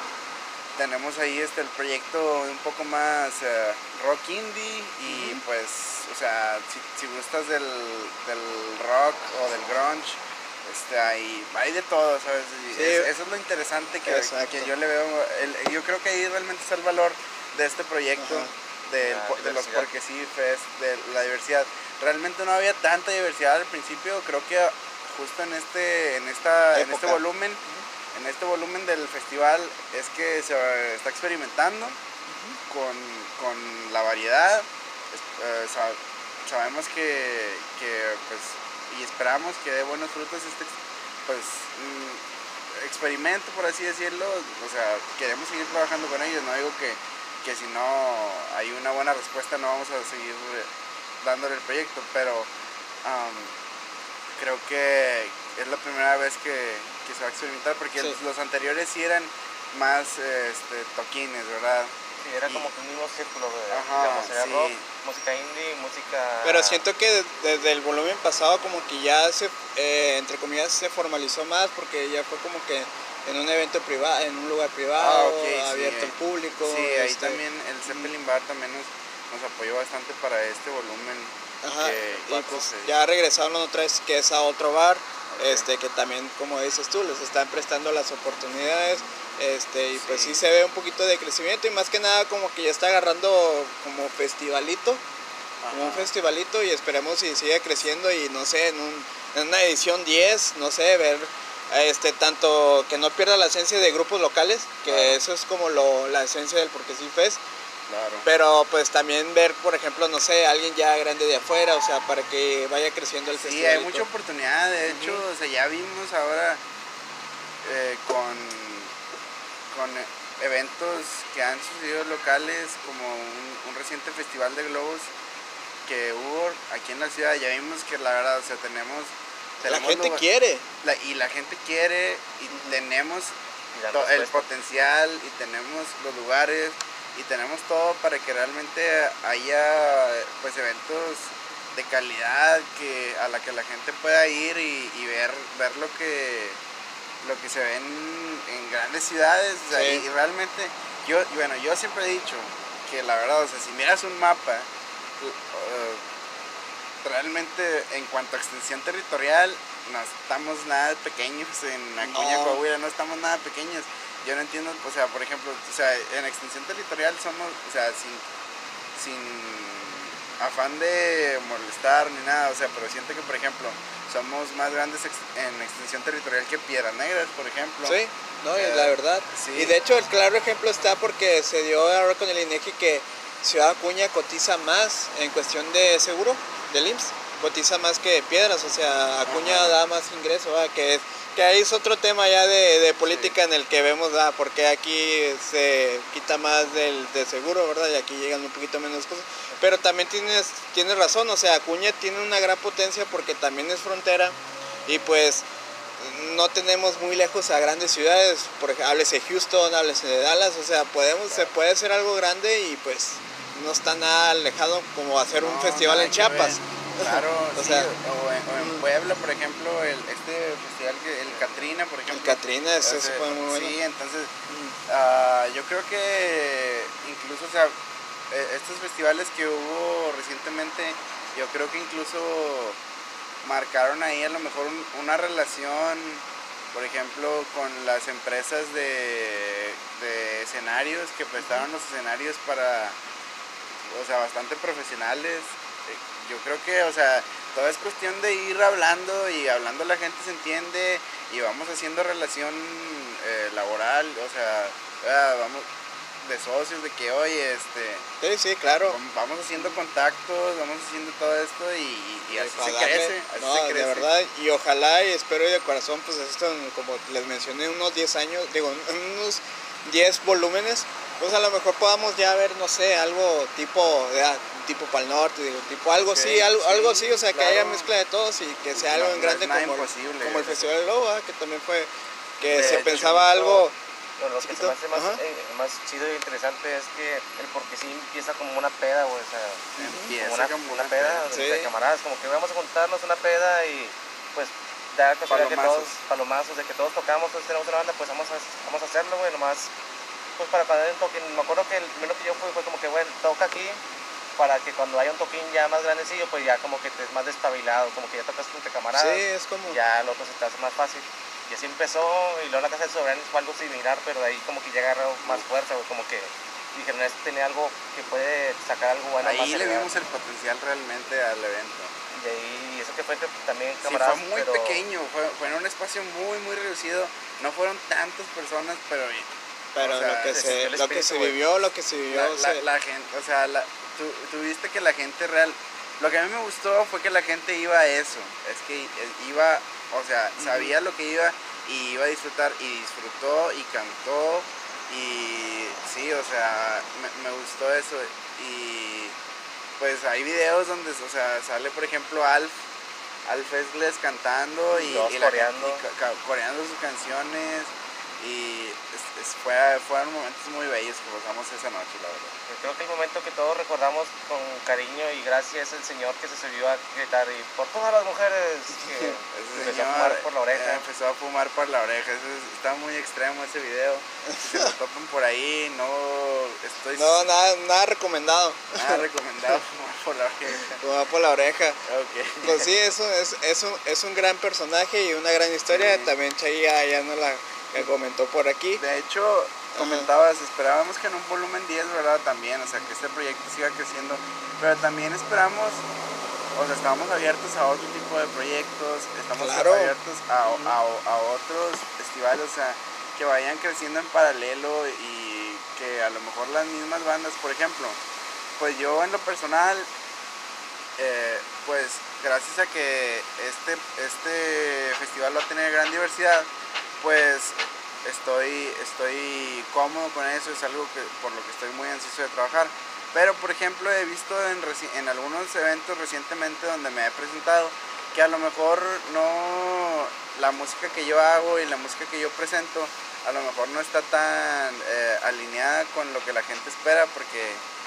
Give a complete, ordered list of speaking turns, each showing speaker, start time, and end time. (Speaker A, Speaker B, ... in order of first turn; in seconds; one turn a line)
Speaker A: 0.8-27.6
Speaker B: 5.1-5.4
Speaker B: 12.7-13.1
Speaker B: 14.1-14.7
Speaker B: 18.2-18.5
Speaker C: 19.0-19.9
Speaker B: 26.7-27.8
Speaker A: 28.1-32.0
Speaker B: 32.3-32.6
Speaker A: 32.7-40.7
Speaker A: 41.3-42.2
Speaker A: 42.7-50.7
Speaker A: 51.2-52.5
Speaker A: 53.0-53.5
Speaker A: 54.4-62.7
Speaker C: 62.2-66.8
Speaker A: 63.7-64.8
Speaker B: 66.4-78.1
Speaker A: 75.0-82.9
Speaker B: 81.6-95.0
Speaker A: 85.3-85.7
Speaker A: 90.0-90.4
Speaker A: 95.6-96.1
Speaker B: 95.7-107.4
Speaker A: 104.8-105.2
Speaker A: 107.9-108.3
Speaker B: 108.2-114.0
Speaker A: 113.4-116.6
Speaker B: 114.9-115.2
Speaker A: 117.6-118.9
Speaker A: 119.7-125.1
Speaker A: 125.8-130.2
Speaker B: 129.6-130.6
Speaker A: 130.8-133.3
Speaker B: 132.5-132.8
Speaker C: 133.8-134.5
Speaker A: 133.9-146.6
Speaker A: 147.2-154.7
Speaker B: 149.7-150.0
Speaker A: 155.2-156.0
Speaker A: 157.0-168.2
Speaker B: 162.0-162.6
Speaker A: 168.9-178.0
Speaker B: 177.8-204.3
Speaker A: 178.5-179.8
Speaker A: 189.2-189.8
Speaker A: 193.1-193.3
Speaker B: 204.8-205.5
Speaker B: 206.0-217.9
Speaker A: 215.3-224.3
Speaker B: 218.5-218.8
Speaker C: 221.3-221.7
Speaker B: 222.1-223.8
Speaker B: 224.5-224.8
Speaker A: 224.9-227.7
Speaker A: 228.3-232.8
Speaker A: 233.4-243.0
Speaker B: 241.4-241.7
Speaker A: 243.9-255.7
Speaker A: 256.2-258.1
Speaker B: 258.2-259.0
Speaker A: 258.8-264.1
Speaker B: 262.3-283.7
Speaker A: 276.0-277.9
Speaker A: 278.7-280.7
Speaker A: 282.4-283.2
Speaker C: 282.5-283.7
Speaker C: 284.2-299.7
Speaker B: 284.4-285.2
Speaker A: 289.8-291.2
Speaker B: 289.8-290.1
Speaker B: 291.3-291.7
Speaker A: 295.3-296.0
Speaker C: 300.4-303.8
Speaker C: 304.4-319.9
Speaker B: 308.9-309.8
Speaker A: 319.2-321.9
Speaker C: 322.1-324.8
Speaker A: 323.8-329.2
Speaker B: 329.7-332.6
Speaker A: 329.8-330.5
Speaker C: 330.2-331.4
Speaker A: 332.1-349.1
Speaker B: 340.4-340.7
Speaker A: 349.8-352.6
Speaker A: 353.2-362.3
Speaker C: 354.7-355.8
Speaker C: 362.5-370.8
Speaker B: 368.8-369.1
Speaker A: 369.3-377.2
Speaker B: 374.3-374.7
Speaker B: 376.9-379.0
Speaker A: 378.8-380.8
Speaker B: 380.7-381.8
Speaker A: 381.9-382.7
Speaker B: 382.4-388.8
Speaker A: 385.7-386.1
Speaker A: 388.8-395.8
Speaker B: 389.7-390.1
Speaker A: 396.5-408.0
Speaker B: 399.4-399.9
Speaker B: 400.5-400.8
Speaker A: 408.6-409.9
Speaker A: 411.0-416.5
Speaker A: 417.0-437.6